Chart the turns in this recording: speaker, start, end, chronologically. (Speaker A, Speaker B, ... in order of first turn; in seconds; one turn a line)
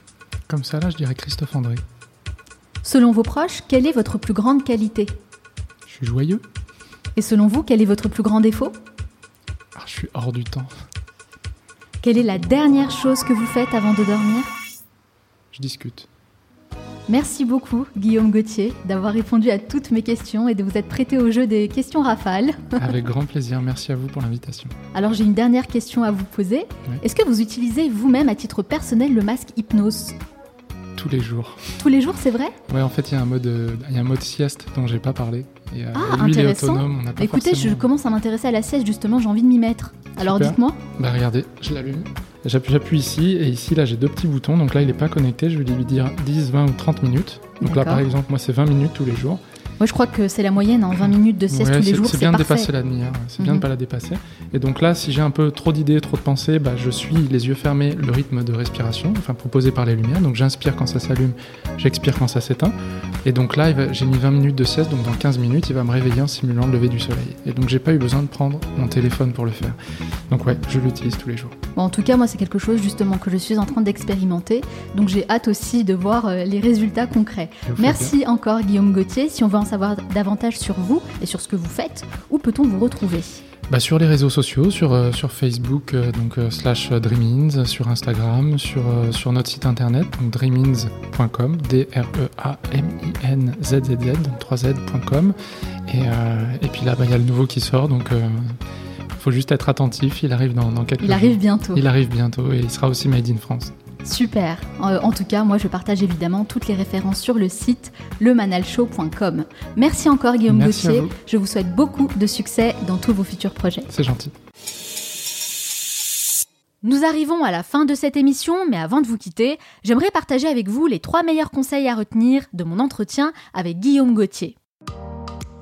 Speaker A: 0.5-1.8
Speaker B: 2.8-5.1
Speaker A: 5.9-6.4
Speaker B: 7.2-8.8
Speaker A: 9.7-10.7
Speaker B: 12.0-14.5
Speaker A: 15.5-16.1
Speaker B: 17.1-22.9
Speaker A: 22.8-24.7
Speaker B: 24.9-30.2
Speaker A: 30.9-31.7
Speaker B: 31.8-32.6
Speaker A: 32.7-37.9
Speaker B: 35.9-40.8
Speaker A: 40.2-49.4
Speaker B: 47.6-48.0
Speaker B: 49.8-52.7
Speaker A: 51.5-69.8
Speaker B: 53.4-53.6
Speaker A: 70.3-71.6
Speaker B: 71.8-83.4
Speaker A: 77.7-78.1
Speaker A: 83.7-98.6
Speaker A: 99.1-103.7
Speaker B: 101.0-101.8
Speaker B: 104.0-113.9
Speaker A: 110.5-111.1
Speaker A: 113.9-114.3
Speaker B: 116.8-124.6